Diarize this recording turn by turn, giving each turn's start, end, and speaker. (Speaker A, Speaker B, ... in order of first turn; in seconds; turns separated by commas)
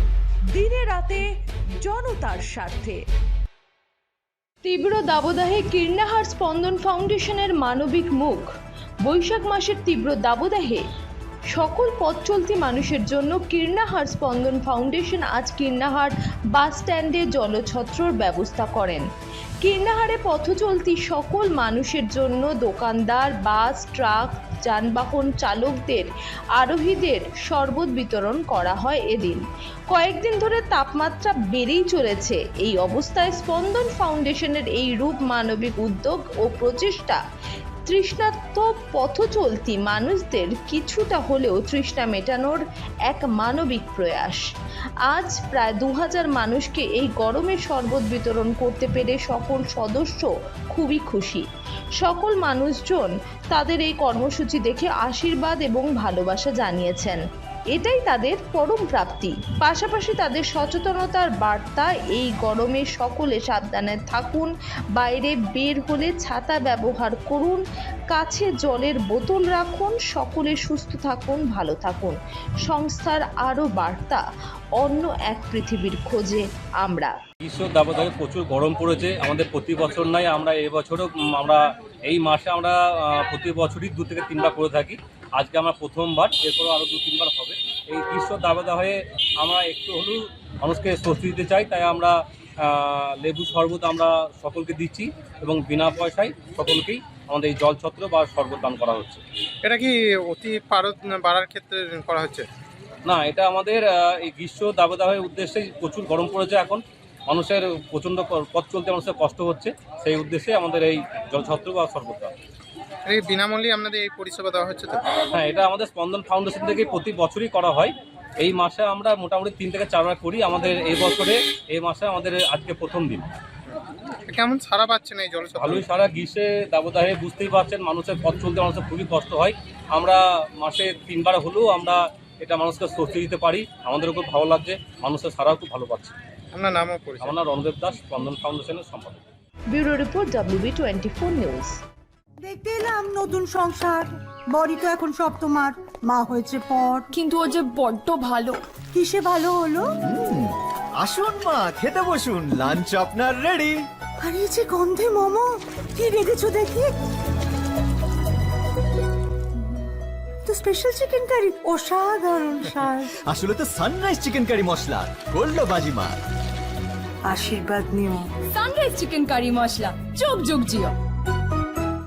Speaker A: 0.6-1.2, Speaker A: 1.8-3.0, Speaker A: 4.6-8.5, Speaker A: 9.1-10.8, Speaker A: 11.5-19.1, Speaker A: 19.6-37.2, Speaker A: 37.9-44.4, Speaker A: 45.1-51.5, Speaker A: 52.0-57.2, Speaker A: 57.7-74.2, Speaker A: 74.8-77.2, Speaker B: 77.4-99.2, Speaker C: 99.6-102.5, Speaker B: 103.1-112.3, Speaker C: 113.1-115.1, Speaker B: 115.3-123.2, Speaker C: 124.3-125.8, Speaker B: 125.6-136.1, Speaker C: 136.5-137.4, Speaker B: 137.2-139.2, Speaker A: 139.7-141.8, Speaker D: 142.4-147.2, Speaker E: 147.2-148.6, Speaker D: 148.9-149.9, Speaker F: 150.1-153.8, Speaker D: 154.2-156.9, Speaker D: 160.5-163.1, Speaker F: 163.3-166.2, Speaker D: 167.3-168.3, Speaker E: 168.5-170.9